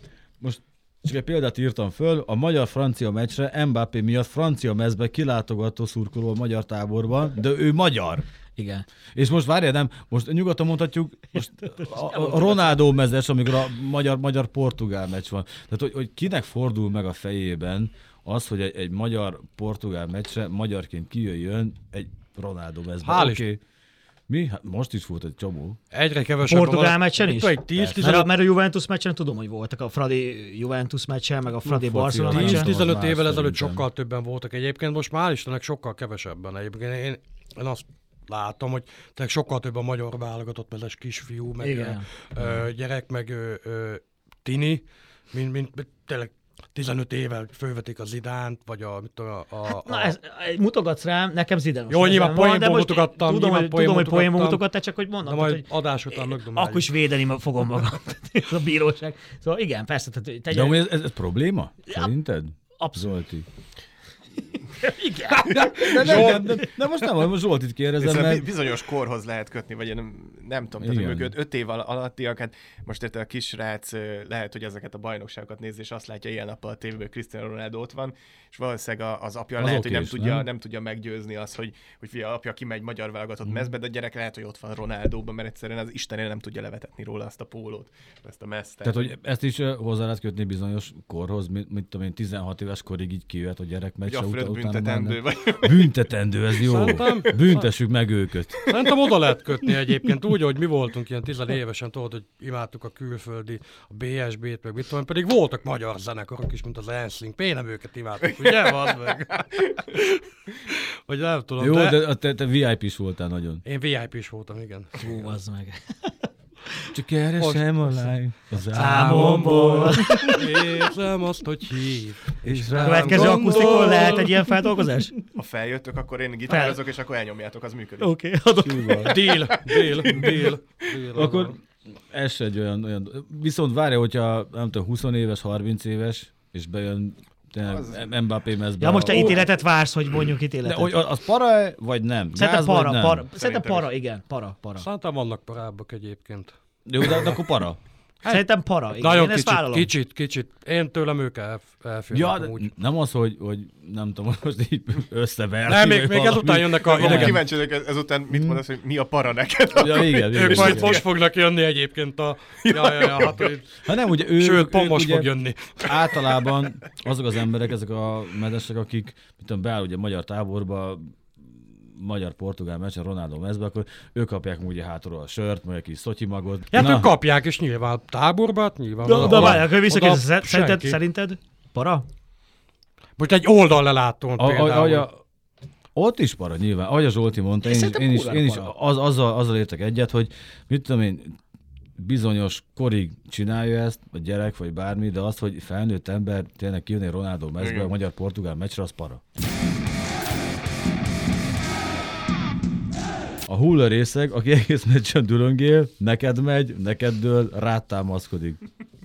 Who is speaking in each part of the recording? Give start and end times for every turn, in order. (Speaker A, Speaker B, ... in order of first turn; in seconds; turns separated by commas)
Speaker A: 0.4-8.2, Speaker B: 8.6-8.9, Speaker A: 9.2-23.6, Speaker B: 11.7-12.8, Speaker C: 23.1-23.4, Speaker A: 24.3-25.8, Speaker C: 25.9-28.4, Speaker B: 26.5-32.7, Speaker A: 27.7-28.0, Speaker A: 31.6-33.9, Speaker C: 32.3-50.1, Speaker B: 41.6-42.6, Speaker B: 49.7-60.8, Speaker C: 51.9-54.6, Speaker C: 55.2-56.9, Speaker A: 60.5-63.5, Speaker B: 62.8-63.1, Speaker B: 64.7-66.4, Speaker A: 65.5-68.5, Speaker D: 66.0-66.4, Speaker D: 68.0-89.1, Speaker A: 70.8-71.3, Speaker A: 79.6-80.5, Speaker A: 88.8-98.6, Speaker D: 94.1-95.9, Speaker C: 96.6-97.7, Speaker D: 96.8-97.2, Speaker D: 98.7-98.9, Speaker C: 98.7-112.0, Speaker D: 108.4-109.7, Speaker A: 111.6-113.6, Speaker C: 113.7-115.3, Speaker B: 115.0-116.1, Speaker A: 116.9-120.4, Speaker B: 118.7-120.6, Speaker C: 118.7-124.5, Speaker A: 122.4-124.3, Speaker B: 122.8-125.1, Speaker D: 125.3-128.1, Speaker B: 126.5-126.8, Speaker B: 128.0-129.2, Speaker A: 128.6-129.2, Speaker C: 129.1-131.5, Speaker D: 129.2-130.9, Speaker A: 131.1-131.6, Speaker A: 132.1-139.5, Speaker D: 137.7-138.1, Speaker B: 138.8-141.0, Speaker A: 140.6-143.2, Speaker B: 142.3-144.9, Speaker D: 143.3-143.9, Speaker C: 144.8-146.5, Speaker A: 146.9-147.8, Speaker C: 148.2-152.7, Speaker B: 148.3-149.9, Speaker A: 152.1-157.4, Speaker C: 155.7-157.4, Speaker D: 156.8-161.1, Speaker A: 158.3-158.6, Speaker A: 159.8-161.0, Speaker C: 160.3-163.8, Speaker D: 162.7-163.4, Speaker A: 163.8-165.3, Speaker C: 164.3-166.3, Speaker A: 165.8-177.1, Speaker C: 176.7-181.0, Speaker B: 179.0-182.1, Speaker A: 179.1-179.7, Speaker C: 183.2-185.1, Speaker A: 184.4-185.2, Speaker A: 186.0-191.4, Speaker B: 187.6-188.7, Speaker A: 192.0-199.2, Speaker D: 197.6-197.9, Speaker A: 203.5-208.6